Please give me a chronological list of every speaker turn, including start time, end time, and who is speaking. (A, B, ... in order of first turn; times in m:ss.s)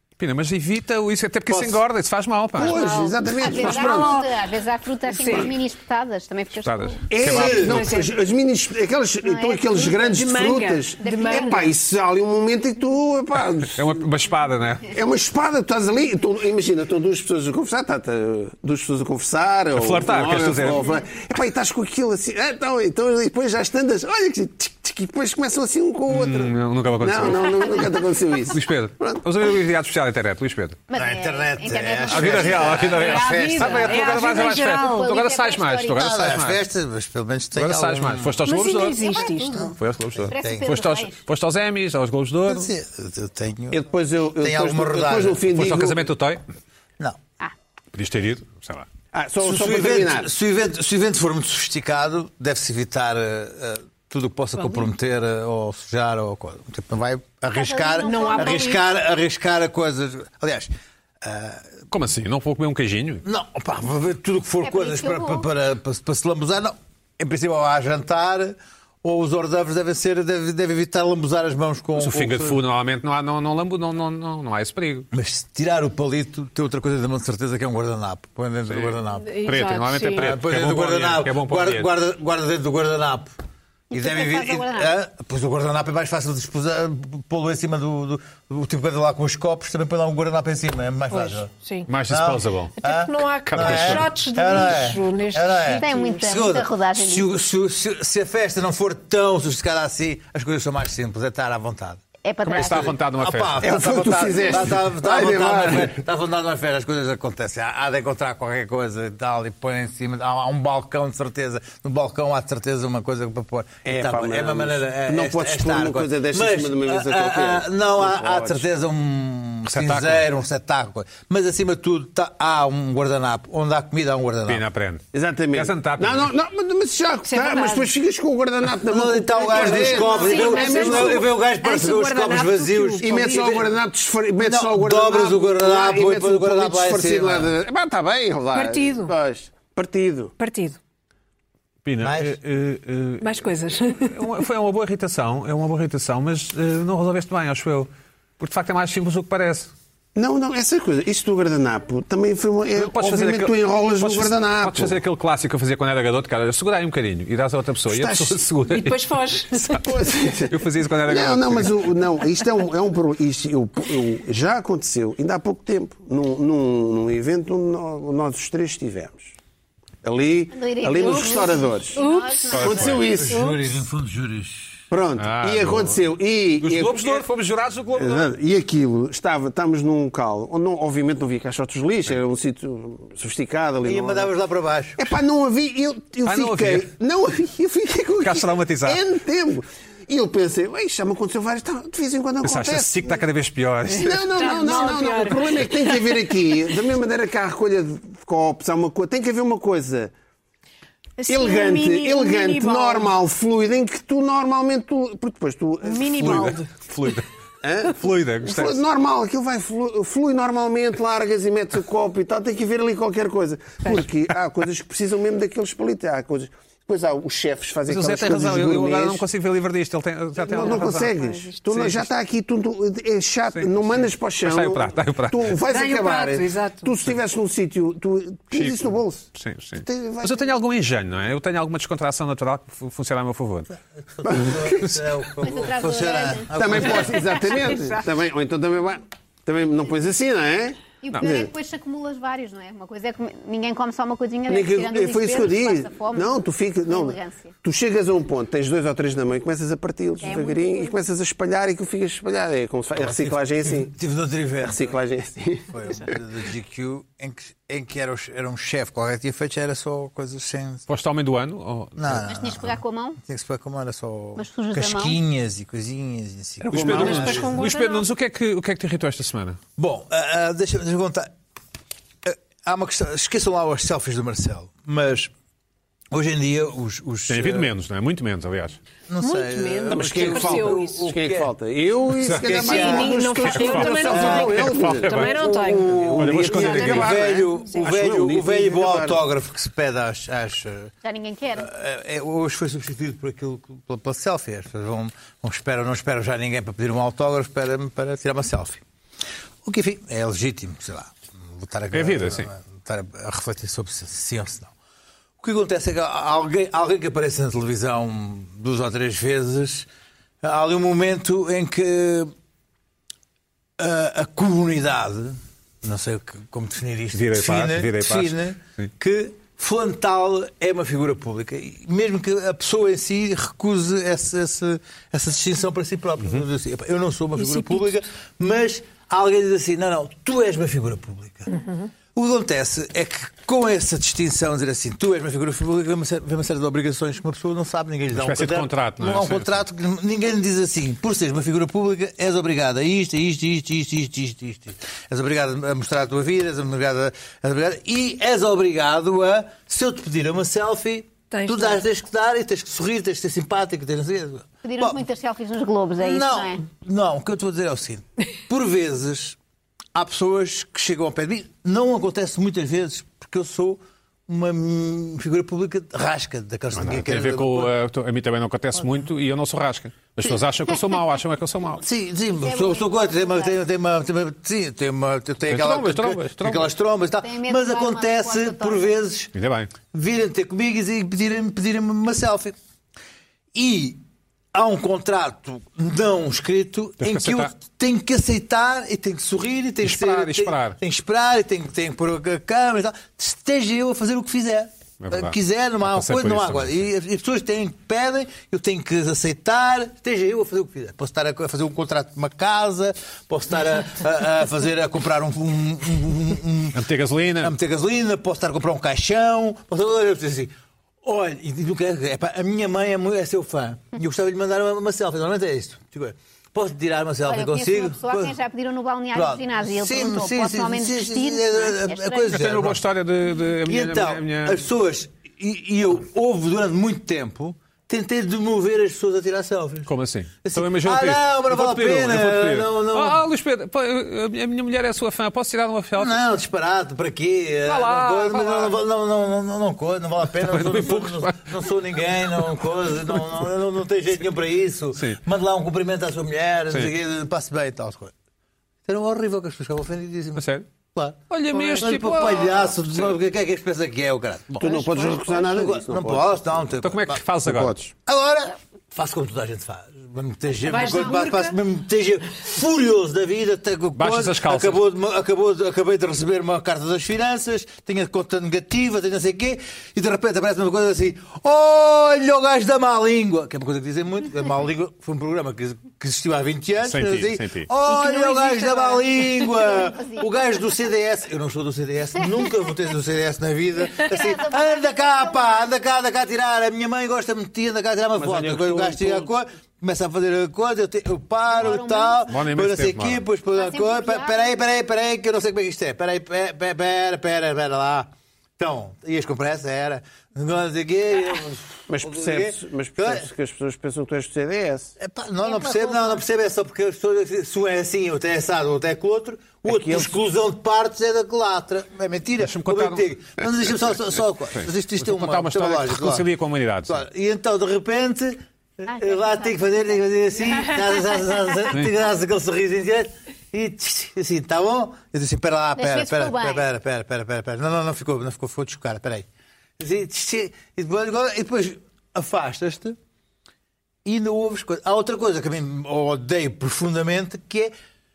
0:00.2-0:02.9 A
0:02.6-0:04.3 B
0:02.6-0:04.3 C
0:02.8-0:07.1 D
0:05.1-0:05.5 C
0:06.6-0:08.0 A
0:07.1-0:14.0 B
0:07.2-0:07.8 E
0:07.3-0:08.2 C
0:09.3-0:09.8 D
0:09.7-0:11.7 C
0:11.0-0:11.7 D
0:13.7-0:14.9 A
0:14.9-0:29.2 B
0:19.7-0:20.8 A
0:26.1-0:27.8 A
0:27.4-0:27.9 D
0:28.5-0:30.8 A
0:30.9-0:36.1 D
0:30.9-0:33.9 E
0:32.1-0:36.6 A
0:33.0-0:35.1 C
0:35.9-0:38.4 E
0:37.5-0:39.1 A
0:38.4-0:39.7 C
0:38.9-0:41.2 D
0:39.6-0:42.7 A
0:40.2-0:40.7 E
0:42.5-0:43.8 E
0:43.7-0:46.1 B
0:44.4-0:45.4 E
0:45.5-0:46.4 A
0:47.9-0:48.9 A
0:49.1-0:50.3 B
0:49.4-1:00.7 E
0:57.5-0:58.8 D
0:58.0-0:58.8 C
1:01.2-1:01.6 E
1:01.9-1:03.2 A
1:03.2-1:12.6 E
1:04.6-1:05.5 D
1:12.0-1:15.1 A
1:15.1-1:19.4 E
1:18.7-1:21.9 A
1:19.1-1:20.3 C
1:20.1-1:23.4 E
1:23.9-1:24.9 D
1:23.9-1:31.5 E
1:31.1-1:31.9 C
1:31.9-1:32.8 A
1:32.1-2:04.6 E
1:32.8-1:36.2 C
1:33.5-1:34.1 A
1:35.8-1:37.3 D
1:42.2-1:42.9 D
1:42.4-1:43.7 A
1:43.6-1:46.0 B
1:53.8-1:58.6 B
1:59.7-2:00.3 A
2:04.5-2:06.3 A
2:05.1-2:11.3 B
2:07.2-2:07.9 C
2:08.8-2:13.6 E
2:09.4-2:13.6 C
2:13.0-2:20.3 B
2:14.4-2:17.5 E
2:18.5-2:19.1 C
2:20.4-2:20.8 C
2:21.8-2:29.7 A
2:22.0-2:22.4 E
2:23.2-2:24.3 C
2:30.2-2:35.0 B
2:32.7-2:39.0 A
2:37.9-2:38.4 B
2:38.7-2:39.7 C
2:39.5-2:39.9 A
2:39.7-2:49.4 B
2:40.4-2:41.9 A
2:50.0-2:52.0 B
2:50.5-2:53.1 D
2:51.0-2:53.6 C
2:52.5-2:53.0 A
2:52.5-2:53.6 B
2:53.1-2:54.9 E
2:54.9-2:57.2 B
2:55.2-2:56.1 A
2:56.6-2:58.3 A
2:57.9-3:04.3 B
3:03.8-3:05.0 E
3:05.0-3:13.2 B
3:06.2-3:06.9 A
3:08.2-3:09.0 A
3:12.4-3:14.2 A
3:14.0-3:16.2 C
3:14.0-3:20.1 B
3:21.2-3:23.2 C
3:21.3-3:26.6 B
3:25.8-3:26.7 C
3:26.2-3:27.3 A
3:27.6-3:39.2 B
3:27.8-3:28.8 A
3:37.9-3:41.2 A
3:40.4-3:49.3 B
3:40.5-3:41.6 C
3:41.7-3:42.1 A
3:43.5-3:45.6 A
3:45.7-3:47.0 C
3:48.5-3:53.7 A
3:49.8-3:50.5 B
3:54.1-3:57.3 E
3:54.2-3:55.0 B
3:55.4-3:56.5 D
3:56.5-4:01.5 B
4:01.0-4:07.5 D
4:04.5-4:13.9 B
4:10.2-4:11.0 D
4:13.0-4:15.0 E
4:14.6-4:16.2 B
4:15.7-4:20.9 E
4:20.9-4:22.2 A
4:22.0-4:27.6 E
4:22.2-4:23.2 D
4:24.4-4:25.2 D
4:26.7-4:29.6 A
4:26.7-4:27.7 B
4:26.9-4:28.0 C
4:29.8-4:31.3 E
4:32.2-4:35.3 E
4:36.1-4:37.7 E
4:37.3-4:38.8 A
4:39.1-4:41.5 E
4:39.2-4:41.1 C
4:39.9-4:49.2 B
4:42.2-4:42.5 A
4:42.3-4:43.4 E
4:42.5-4:47.2 C
4:43.5-4:45.4 A
4:44.0-4:44.7 E
4:45.8-4:50.9 E
4:46.2-4:47.1 A
4:51.0-4:51.7 D
4:51.6-4:58.8 E
4:59.6-5:04.7 E
5:01.9-5:02.5 A
5:05.4-5:09.9 E
5:10.4-5:12.3 E
5:13.8-5:31.5 E
5:17.1-5:18.9 A
5:27.4-5:27.9 C
5:32.2-5:55.0 E
5:38.1-5:39.6 A
5:51.3-5:51.8 C
5:54.6-5:56.6 D
5:56.0-5:59.4 E
6:00.0-6:07.7 E
6:06.7-6:11.8 A
6:11.8-6:19.3 E
6:12.4-6:13.6 D
6:15.5-6:16.7 A
6:17.2-6:18.9 D
6:19.3-6:19.7 A
6:19.9-6:22.6 E
6:23.5-6:24.0 E
6:24.5-6:46.8 E
6:27.0-6:27.5 A
6:29.8-6:30.8 A
6:35.0-6:36.8 A
6:46.7-6:47.5 A
6:47.4-6:58.4 E
6:57.3-7:02.4 D
6:59.1-7:02.8 E
7:02.3-7:04.7 A
7:03.7-7:09.9 E
7:09.9-7:16.2 A
7:10.4-7:13.2 E
7:16.0-7:28.1 E
7:17.7-7:18.8 A
7:20.4-7:21.5 A
7:25.0-7:25.2 A
7:28.8-7:37.2 E
7:30.4-7:30.7 A
7:31.3-7:33.0 A
7:34.6-7:36.5 B
7:36.8-7:37.9 A
7:37.4-7:37.8 B
7:38.1-8:23.3 E
7:40.7-7:41.6 C
7:44.0-7:44.8 A
7:56.8-7:57.7 A
7:57.9-7:59.1 C
7:58.5-8:00.3 D
8:04.0-8:05.4 D
8:08.2-8:09.3 B
8:11.6-8:12.2 D
8:12.3-8:13.2 A
8:13.6-8:14.6 D
8:21.9-8:24.9 B
8:25.0-8:36.3 E
8:25.4-8:26.2 D
8:29.7-8:30.1 B
8:32.4-8:33.1 A
8:34.5-8:37.0 A
8:36.9-8:49.3 E
8:38.9-8:39.5 D
8:45.8-8:46.6 D
8:49.8-8:53.0 E
8:54.0-8:57.7 E